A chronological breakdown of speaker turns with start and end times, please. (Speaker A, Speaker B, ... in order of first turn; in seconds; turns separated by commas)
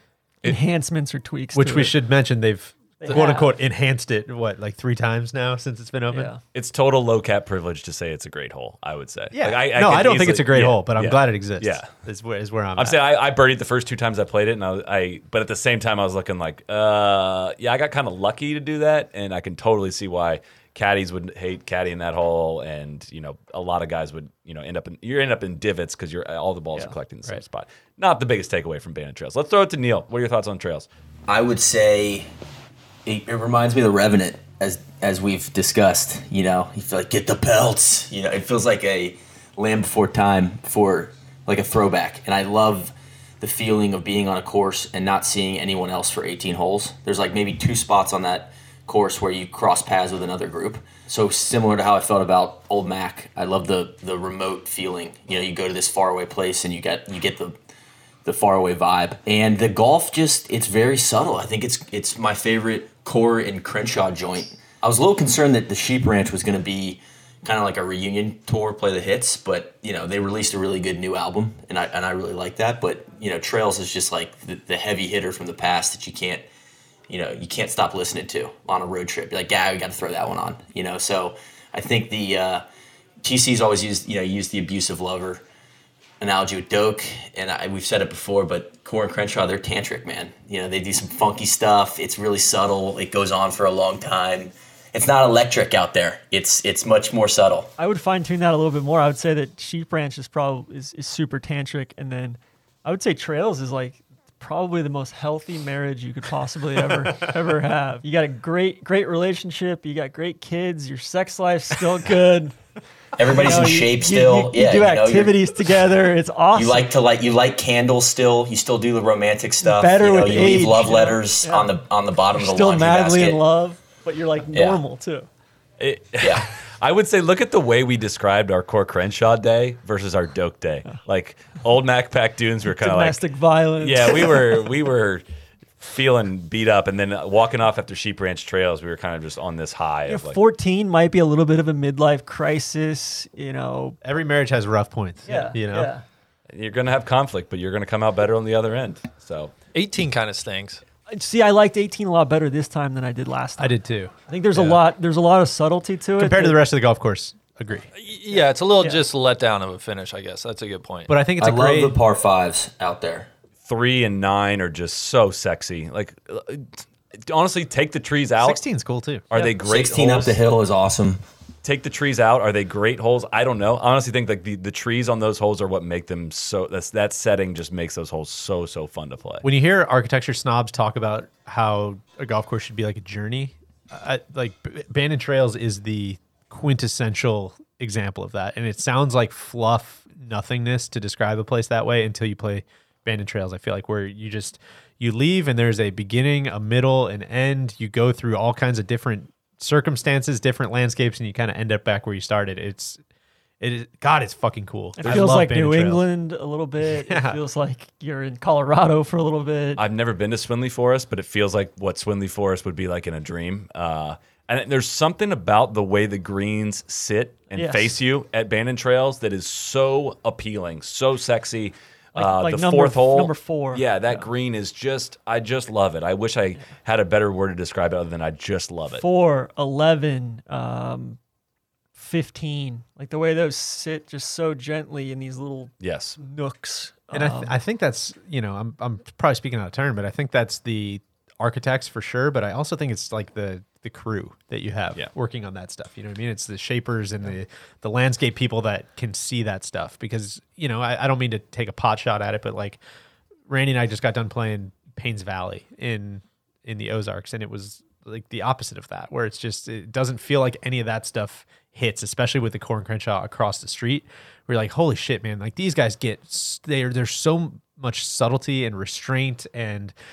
Speaker A: 0.4-1.9, Speaker B: 1.5-6.3, Speaker A: 3.0-3.5, Speaker A: 6.1-6.4, Speaker C: 6.5-11.9, Speaker B: 9.3-13.0, Speaker C: 12.8-30.9, Speaker D: 31.3-32.3, Speaker D: 33.0-57.5, Speaker D: 58.2-76.5, Speaker D: 77.1-82.6, Speaker D: 83.2-85.4, Speaker D: 86.2-97.7, Speaker A: 97.8-112.5, Speaker D: 113.2-115.3, Speaker A: 113.2-116.9, Speaker D: 116.5-123.4, Speaker A: 119.6-121.7, Speaker A: 122.3-125.3, Speaker D: 124.5-124.8, Speaker C: 125.8-133.2, Speaker A: 132.7-134.6, Speaker C: 133.8-135.2, Speaker C: 135.8-140.4, Speaker A: 140.1-144.0, Speaker B: 144.0-145.9, Speaker A: 145.3-146.0, Speaker C: 146.5-149.5, Speaker E: 149.7-150.8, Speaker A: 151.1-156.6, Speaker B: 153.6-154.8, Speaker B: 156.2-157.9, Speaker E: 157.9-161.1, Speaker B: 161.1-161.9, Speaker D: 161.4-163.3, Speaker C: 163.6-168.6, Speaker B: 168.4-169.2, Speaker C: 169.3-170.4, Speaker D: 169.6-171.2, Speaker C: 171.6-179.4, Speaker B: 179.4-203.0, Speaker B: 203.6-206.1, Speaker A: 205.0-209.8, Speaker B: 207.0-207.4, Speaker C: 209.8-229.0, Speaker A: 217.5-217.9, Speaker A: 222.2-224.3, Speaker A: 229.0-231.2, Speaker A: 231.9-237.6, Speaker C: 235.8-236.2, Speaker B: 237.1-252.8, Speaker B: 253.5-269.9